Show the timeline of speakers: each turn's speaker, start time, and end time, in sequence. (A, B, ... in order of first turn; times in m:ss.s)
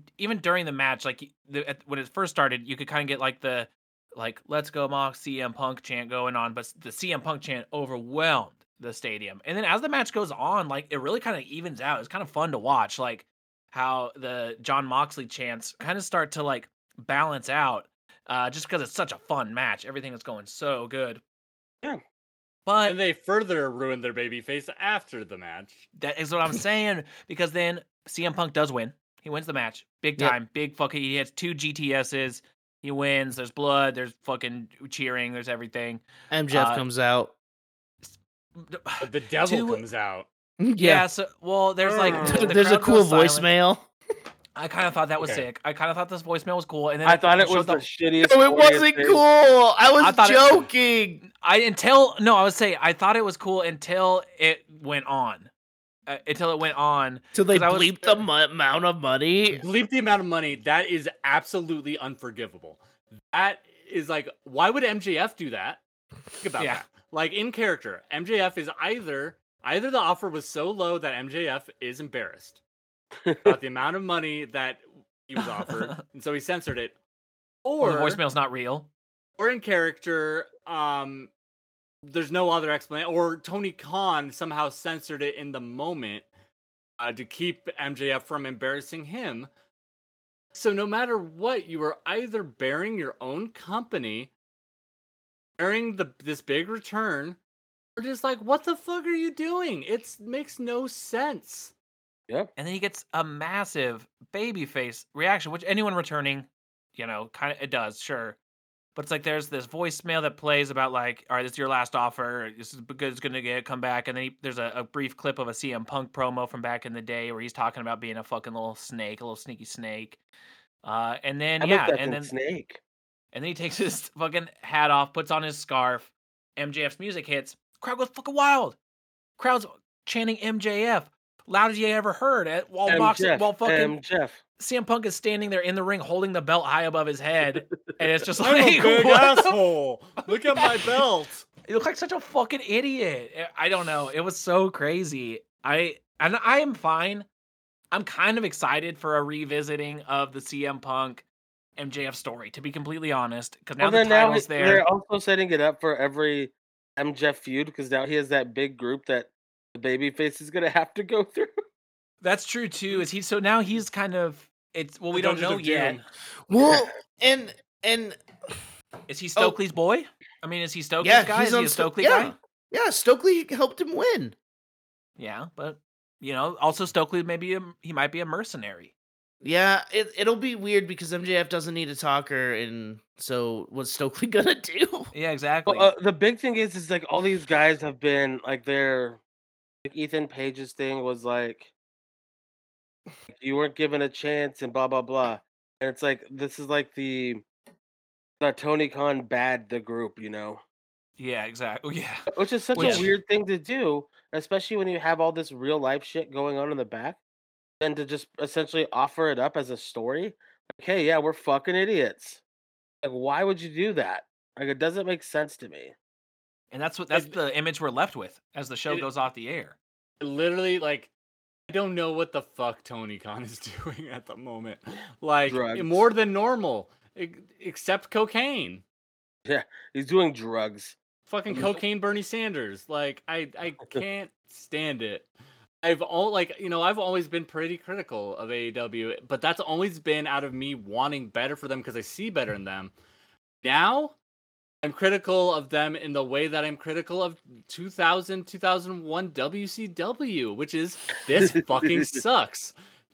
0:00.2-0:21.2 A
0:22.7-0:23.0 A
0:22.8-0:25.8 B
0:26.0-0:36.8 A
0:36.3-0:37.3 C
0:38.0-0:39.8 A
0:39.0-0:40.3 B
0:40.6-0:41.1 C
0:40.8-0:43.5 A
0:41.8-0:42.4 B
0:42.1-0:42.5 D
0:42.1-0:43.9 C
0:44.6-0:47.8 A
0:45.2-0:45.4 B
0:47.0-0:49.2 D
0:48.2-0:51.2 C
0:50.0-0:50.7 A
0:51.2-0:55.5 A
0:56.1-0:58.1 A
0:57.3-0:59.6 C
0:59.5-1:05.8 B
1:06.4-1:12.6 B
1:06.6-1:06.8 A
1:13.2-1:13.6 D
1:13.4-1:17.0 B
1:17.6-1:18.2 B
1:17.8-1:18.9 A
1:19.4-1:21.3 B
1:22.0-1:26.3 B
1:27.0-1:29.5 B
1:30.5-1:34.3 B
1:35.6-1:37.4 B
1:38.0-1:41.7 B
1:42.6-1:48.4 A
1:49.0-2:00.2 A
2:00.8-2:02.3 A
2:01.6-2:02.8 D
2:03.3-2:08.8 A
2:09.4-2:14.0 A
2:12.9-2:14.4 D
2:14.6-2:19.6 A
2:18.4-2:21.4 B
2:20.5-2:20.8 A
2:21.7-2:27.3 A
2:27.9-2:31.2 A
2:31.8-2:34.9 A
2:33.8-2:41.5 D
2:42.2-2:46.0 A
2:45.1-2:46.0 B
2:46.5-2:48.6 C
2:49.1-2:52.3 A
2:51.0-2:54.4 C
2:55.2-2:58.9 A
2:59.4-3:05.1 C
3:05.1-3:05.9 A
3:05.7-3:09.2 D
3:09.8-3:11.7 D
3:13.3-3:17.4 D
3:18.4-3:20.6 D
3:21.2-3:23.1 A
3:22.3-3:27.2 D
3:22.8-3:23.0 C
3:27.8-3:32.4 D
3:33.0-3:36.0 D
3:36.7-3:39.8 A
3:37.1-3:37.4 B
3:40.2-3:41.1 B
3:41.7-3:48.8 B
3:45.5-3:46.1 D
3:49.5-3:51.0 D
3:51.3-3:55.3 B
3:51.5-3:51.8 D
3:55.8-4:02.9 B
4:03.6-4:04.2 B
4:04.8-4:12.7 B
4:11.4-4:12.2 D